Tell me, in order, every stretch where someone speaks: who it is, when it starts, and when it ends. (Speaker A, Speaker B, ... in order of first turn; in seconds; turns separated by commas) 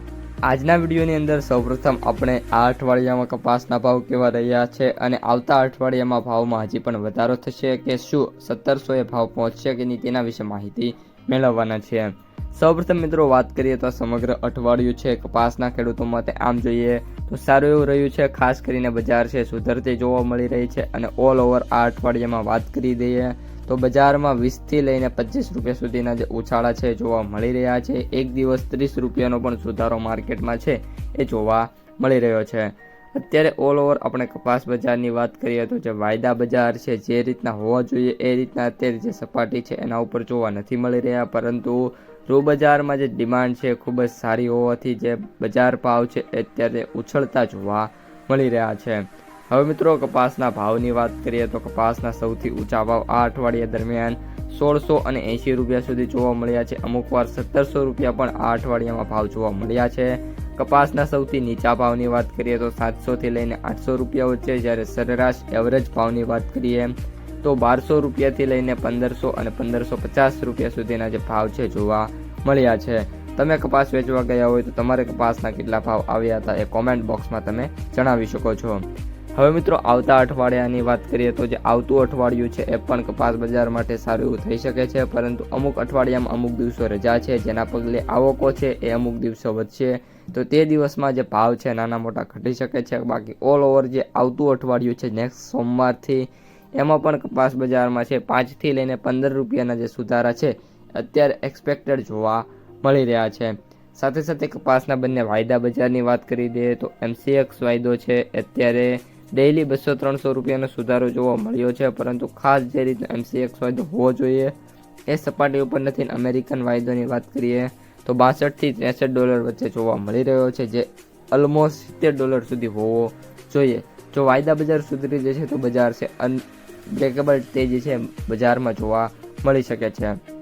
Speaker A: 0.4-114.5, Speaker A: 115.1-130.2